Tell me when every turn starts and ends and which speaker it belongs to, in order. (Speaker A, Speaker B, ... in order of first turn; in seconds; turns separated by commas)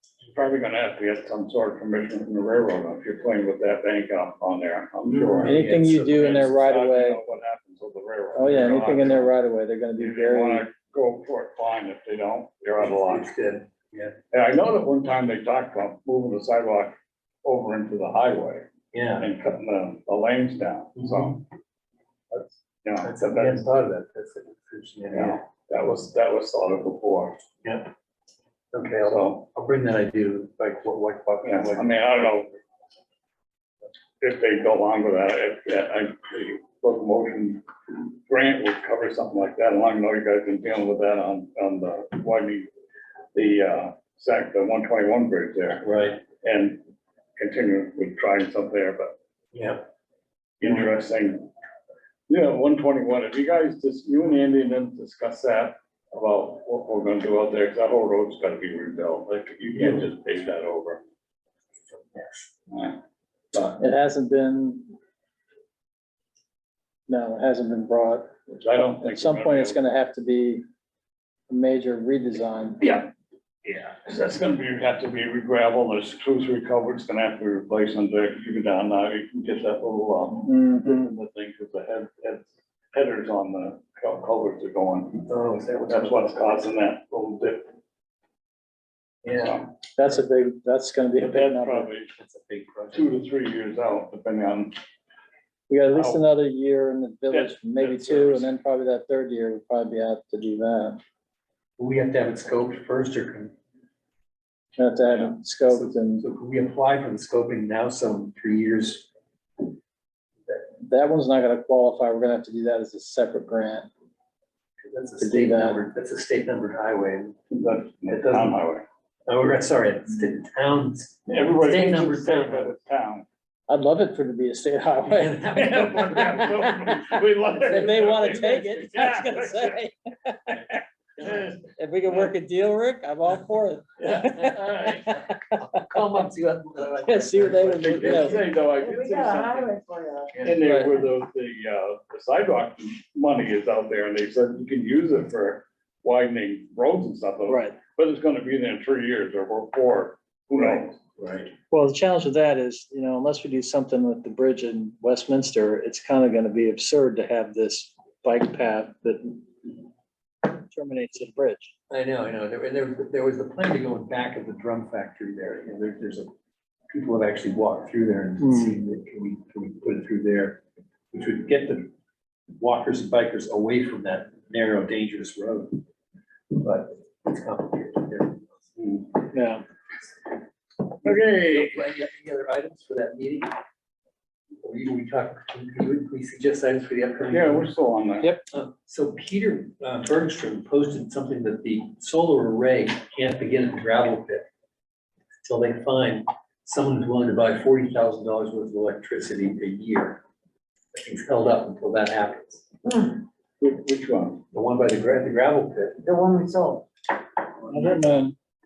Speaker A: 0.3-9.3, Speaker B: 5.1-6.4, Speaker C: 5.4-7.2, Speaker C: 8.3-10.7, Speaker A: 10.0-13.3, Speaker B: 12.8-14.2, Speaker A: 14.3-18.7, Speaker B: 18.9-19.3, Speaker A: 19.2-21.4, Speaker B: 21.0-21.2, Speaker A: 22.8-23.7, Speaker B: 23.0-25.4, Speaker A: 25.1-27.4, Speaker B: 27.6-27.9, Speaker B: 28.7-32.6, Speaker A: 29.1-29.4, Speaker A: 31.4-32.5, Speaker A: 34.2-37.7, Speaker A: 38.3-42.7, Speaker A: 43.4-46.8, Speaker B: 45.8-46.2, Speaker A: 47.4-49.1, Speaker B: 49.5-49.8, Speaker A: 50.6-51.5, Speaker A: 52.3-61.0, Speaker A: 62.7-63.0, Speaker C: 63.8-64.9, Speaker C: 67.1-70.6, Speaker A: 68.6-69.8, Speaker C: 71.5-72.9, Speaker A: 73.7-85.3, Speaker C: 80.5-81.1, Speaker B: 85.3-86.7, Speaker A: 85.8-87.7, Speaker B: 89.2-90.2, Speaker A: 89.3-89.7, Speaker C: 90.0-91.9, Speaker A: 91.2-92.1, Speaker B: 92.1-93.2, Speaker A: 92.9-94.8, Speaker C: 95.7-101.0, Speaker A: 95.9-96.2, Speaker A: 97.3-98.5, Speaker B: 101.8-103.5, Speaker C: 104.8-106.2, Speaker B: 105.1-109.1, Speaker C: 110.8-113.9, Speaker B: 114.8-117.4, Speaker C: 115.2-115.8, Speaker A: 117.5-118.8, Speaker B: 118.1-118.6, Speaker B: 119.3-122.8, Speaker A: 121.3-123.3, Speaker C: 123.7-125.5, Speaker B: 125.0-127.0, Speaker A: 125.5-129.8, Speaker B: 127.7-128.7, Speaker C: 127.7-130.6, Speaker A: 131.2-131.5, Speaker C: 131.6-135.6, Speaker B: 134.0-138.5, Speaker C: 137.0-138.4, Speaker A: 137.8-139.7, Speaker D: 138.6-140.4, Speaker B: 140.3-140.9, Speaker A: 140.4-151.0, Speaker C: 147.5-147.8, Speaker B: 150.5-151.5, Speaker C: 151.7-159.7, Speaker C: 160.4-161.7, Speaker B: 161.9-166.3, Speaker B: 166.9-171.9, Speaker C: 168.4-168.7, Speaker B: 172.6-175.8, Speaker B: 176.5-179.2, Speaker C: 179.3-179.6, Speaker B: 181.0-183.5, Speaker A: 181.0-181.8, Speaker B: 184.6-187.7, Speaker A: 187.3-188.3, Speaker B: 188.5-194.5, Speaker B: 195.4-200.2, Speaker B: 200.9-202.7, Speaker D: 202.8-203.2, Speaker A: 203.6-204.4, Speaker B: 204.5-206.0, Speaker D: 206.0-206.9, Speaker C: 207.7-208.3